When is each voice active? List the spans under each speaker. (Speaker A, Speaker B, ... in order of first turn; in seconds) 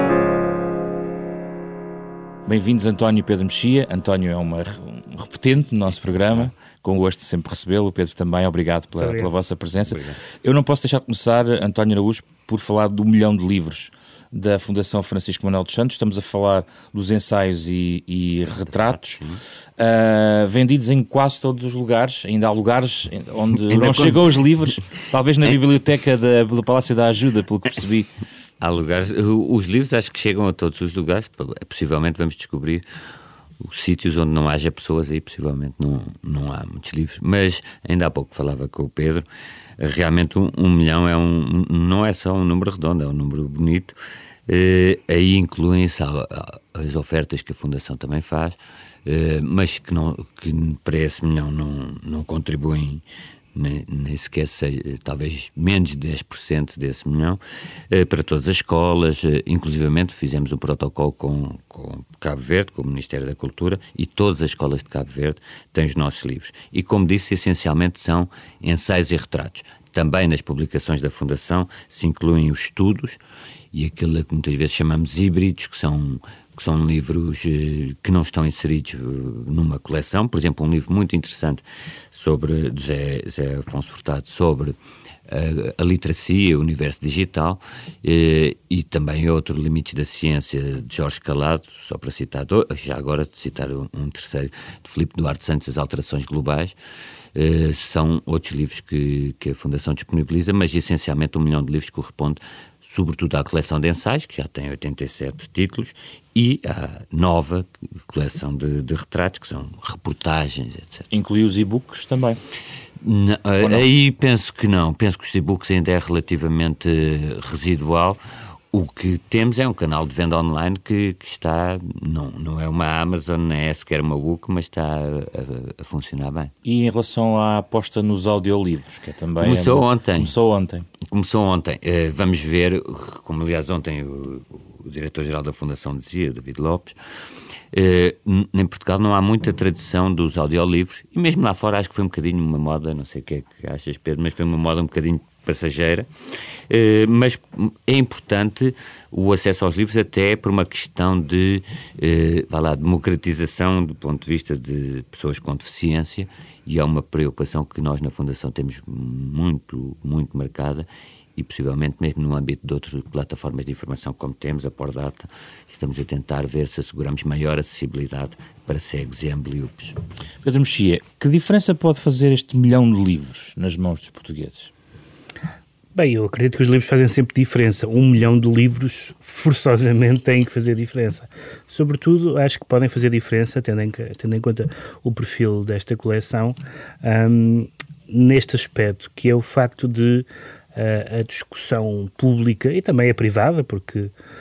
Speaker A: 2.5-19.2, 19.8-28.1, 111.1-112.4, 113.6-113.9, 126.6-130.9, 170.4-174.7
Speaker B: 9.0-9.3, 175.9-194.1
Speaker C: 9.8-10.2, 18.6-19.4, 23.6-24.2, 28.6-32.8, 33.6-39.2, 39.8-43.9, 44.5-53.0, 53.5-57.4, 57.9-73.2, 73.7-84.7, 85.3-96.8, 97.3-111.1, 113.0-118.2, 118.7-126.5, 129.4-130.3, 131.1-136.9, 137.7-146.1, 146.7-169.9